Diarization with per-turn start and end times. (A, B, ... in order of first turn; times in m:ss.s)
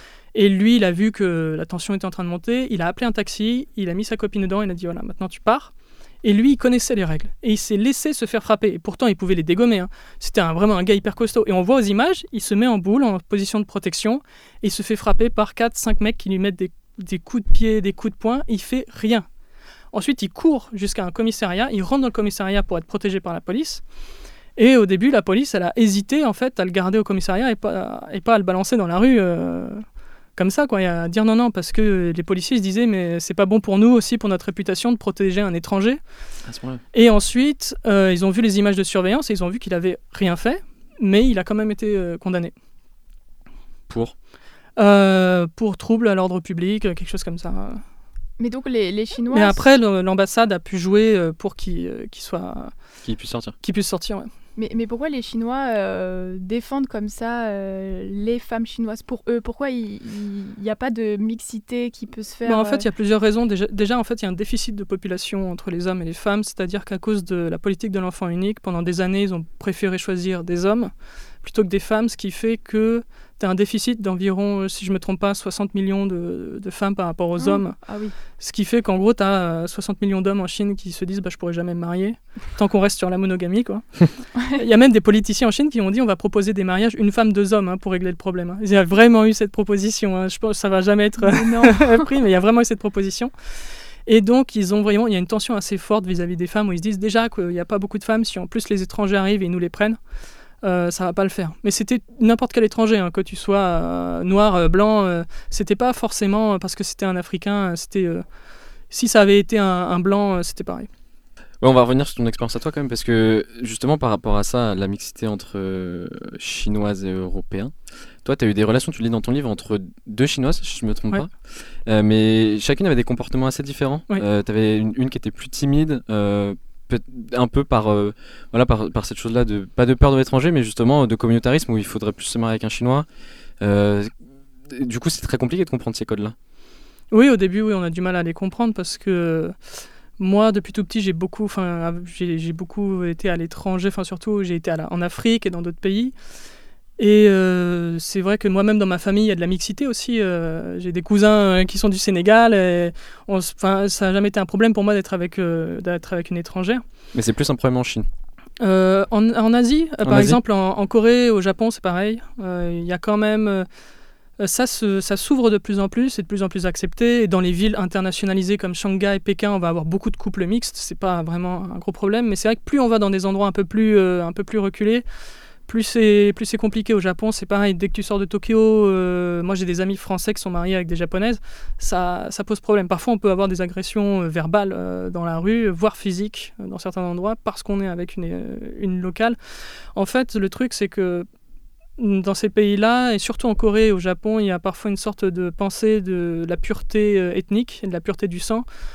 0:00.3-0:05.7 A
0:06.2-0:19.2 A
0:19.9-0:23.8 A
0:24.6-0:29.8 A
0:30.4-0:36.0 A
0:36.5-0:36.8 B
0:36.9-0:42.5 A
0:43.9-0:44.1 B
0:44.8-0:47.8 A
0:48.4-0:49.6 C
0:49.3-0:52.7 A
0:53.0-0:53.5 B
0:53.6-0:54.3 A
0:54.6-1:02.8 C
1:02.5-1:10.9 A
1:11.4-1:17.8 A
1:17.4-1:18.1 C
1:18.4-1:33.3 A
1:31.2-1:32.1 C
1:34.1-1:40.0 A
1:40.6-1:48.2 A
1:48.9-1:50.9 A
1:51.6-2:01.4 B
2:01.9-2:13.1 B
2:13.6-2:14.1 B
2:14.7-2:16.4 B
2:17.1-2:19.5 A
2:20.2-2:26.1 A
2:27.0-2:36.8 A
2:37.1-2:38.1 B
2:38.6-2:43.7 A
2:40.0-2:40.4 B
2:44.4-2:55.0 A
2:55.7-3:09.4 A
3:10.0-3:11.3 A
3:12.0-3:18.6 A